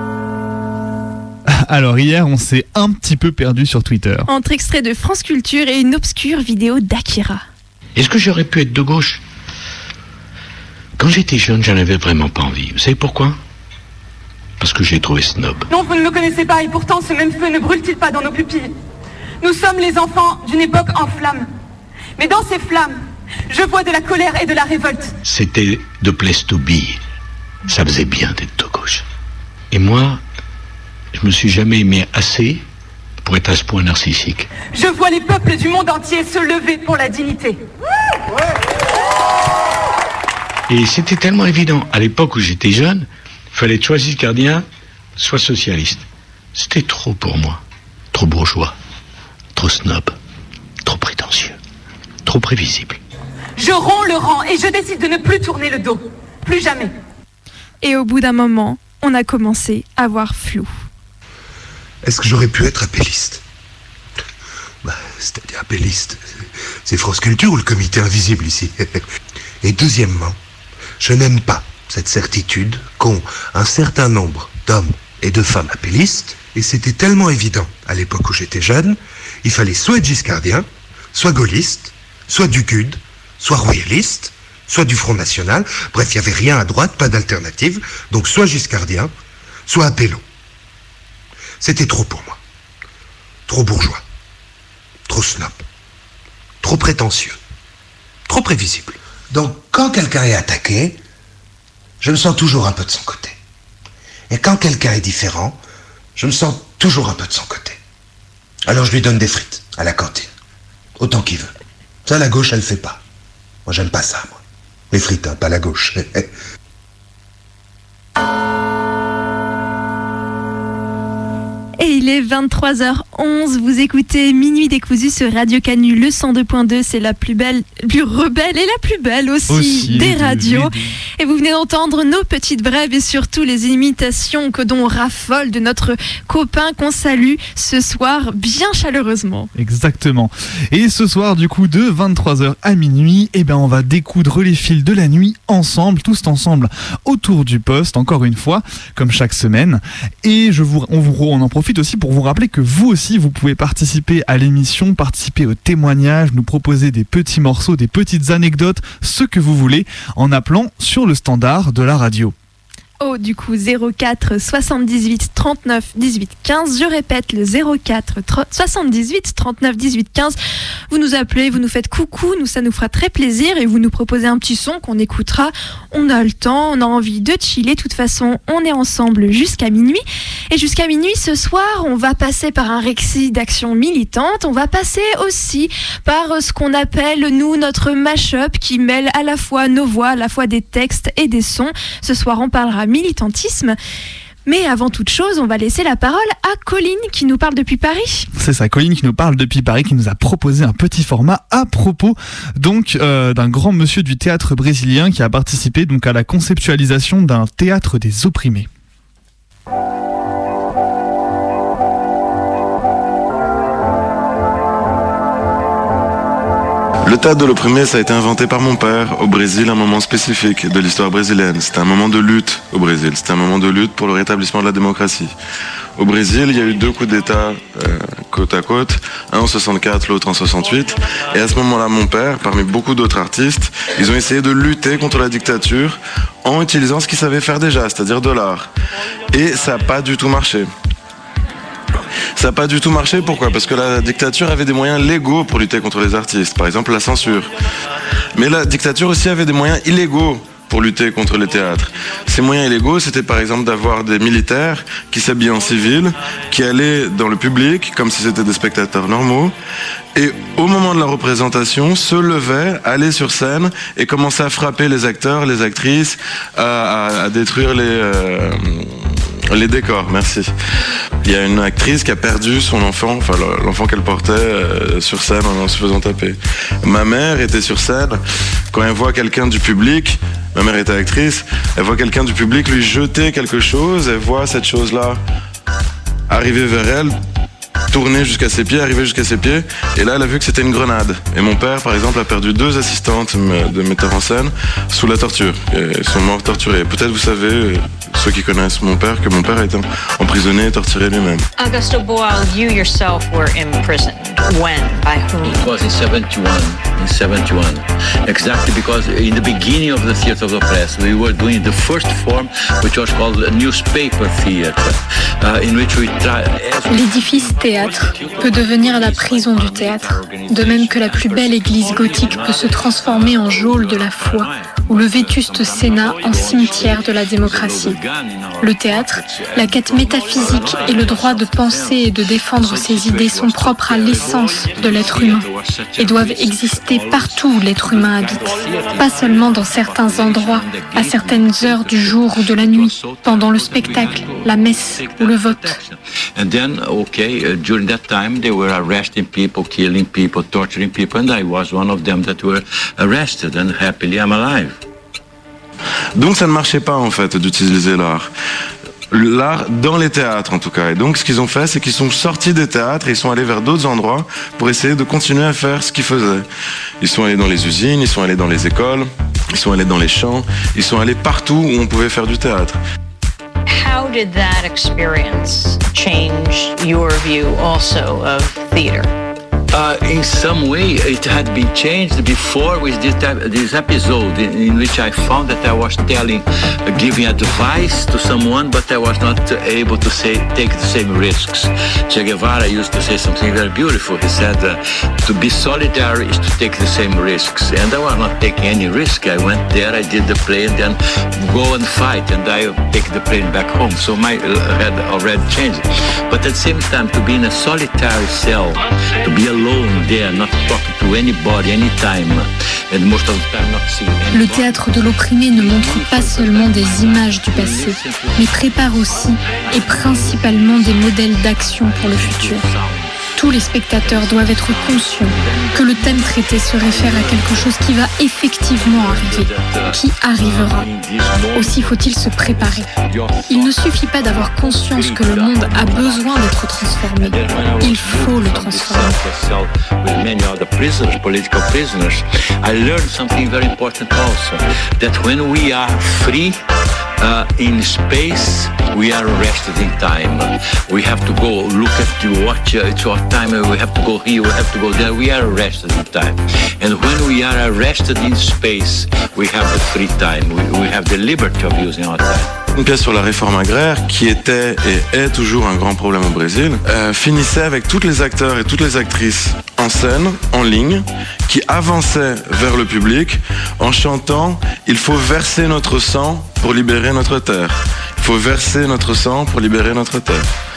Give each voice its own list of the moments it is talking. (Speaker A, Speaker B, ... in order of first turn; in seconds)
Speaker A: 1.5-4.3, 129.5-130.9, 139.5-162.3, 198.3-208.7
Speaker B: 4.3-7.4, 57.8-60.7, 121.8-139.5, 163.0-170.3, 170.9-193.8, 194.4-198.3
Speaker C: 8.0-9.2, 11.0-13.4, 14.6-15.7, 25.2-27.0, 27.6-29.0, 29.7-30.2, 31.1-32.6, 33.2-34.5, 40.7-44.6, 45.2-47.6, 48.1-48.7, 49.5-50.1, 50.8-51.6, 52.2-53.0
Speaker D: 15.7-18.7, 19.4-21.5, 22.2-25.1, 34.7-37.6, 53.6-56.9
Speaker E: 62.0-63.4, 64.8-69.0, 69.6-70.3, 71.0-89.1, 89.7-90.2, 91.6-92.4, 93.5-94.0, 95.1-95.6, 96.6-97.4, 98.3-101.0, 102.0-103.4, 104.3-105.6, 106.2-107.8, 108.7-110.3, 111.0-111.5, 112.0-113.0, 113.7-114.4, 114.9-116.3
Speaker F: 217.0-225.3, 226.0-238.7, 239.3-240.7, 242.4-247.5, 248.3-259.5, 260.1-270.5, 271.2-278.2, 278.7-285.2, 286.3-287.1, 287.9-301.4, 356.1-358.3, 359.1-366.4, 367.0-372.8, 462.8-480.5
Speaker G: 301.6-305.7, 373.7-379.1
Speaker H: 305.4-354.8, 379.7-428.1, 428.7-446.6, 447.2-462.5
Speaker I: 316.9-328.0, 328.6-335.5, 336.0-345.8, 414.3-422.6, 423.4-430.9, 431.5-432.9, 433.5-439.2